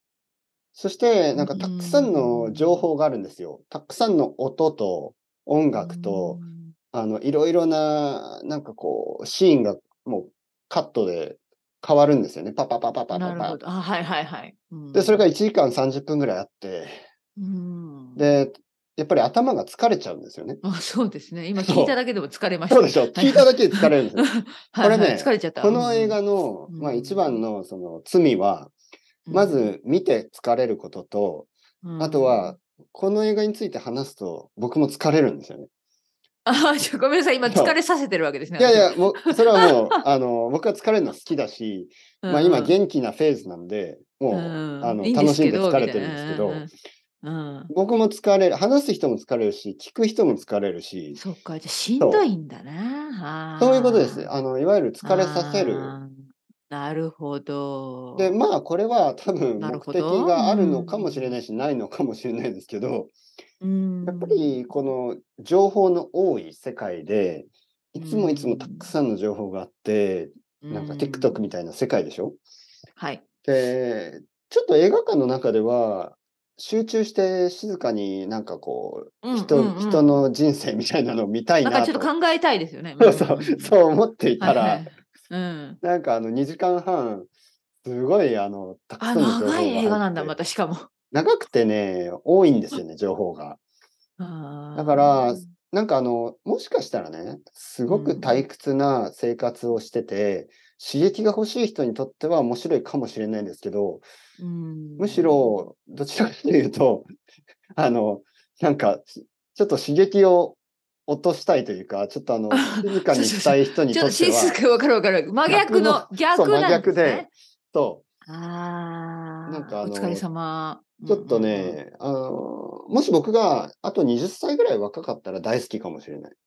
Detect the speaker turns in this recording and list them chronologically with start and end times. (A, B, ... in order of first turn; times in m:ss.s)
0:00.7-0:06.4 A
0:01.3-0:02.8 B
0:05.7-0:06.7 B
0:06.9-0:13.6 A
0:13.1-0:15.3 B
0:14.9-0:17.0 A
0:17.4-0:18.3 B
0:18.2-0:20.6 A
0:20.6-0:27.4 B
0:21.6-0:22.0 A
0:22.7-0:28.7 A
0:29.3-0:29.7 B
0:29.3-0:35.7 A
0:31.8-0:32.5 B
0:36.4-0:40.0 B
0:37.4-0:37.8 A
0:38.6-0:46.7 A
0:42.2-0:42.8 B
0:44.3-0:46.7 B
0:47.2-0:47.7 B
0:47.7-0:51.2 A
0:51.2-0:54.3 B
0:52.0-0:52.3 A
0:53.6-0:56.0 A
0:55.0-0:58.4 B
0:58.2-1:03.1 A
0:59.6-1:01.4 B
1:03.6-1:04.6 B
1:04.0-1:12.4 A
1:08.0-1:08.9 B
1:10.6-1:11.4 B
1:13.0-1:13.2 B
1:13.4-1:22.1 A
1:19.2-1:20.2 B
1:21.6-1:23.7 B
1:23.0-1:24.8 A
1:24.4-1:25.8 B
1:25.8-1:27.3 A
1:27.8-1:30.4 A
1:29.0-1:30.8 B
1:31.1-1:33.6 A
1:34.2-1:35.5 B
1:34.8-1:44.0 A
1:37.8-1:38.4 B
1:44.4-1:45.5 B
1:45.0-1:47.1 A
1:47.7-1:54.6 A
1:52.5-1:57.3 B
1:55.4-1:58.0 A
1:58.2-2:01.8 B
1:59.5-2:00.2 A
2:01.0-2:06.3 A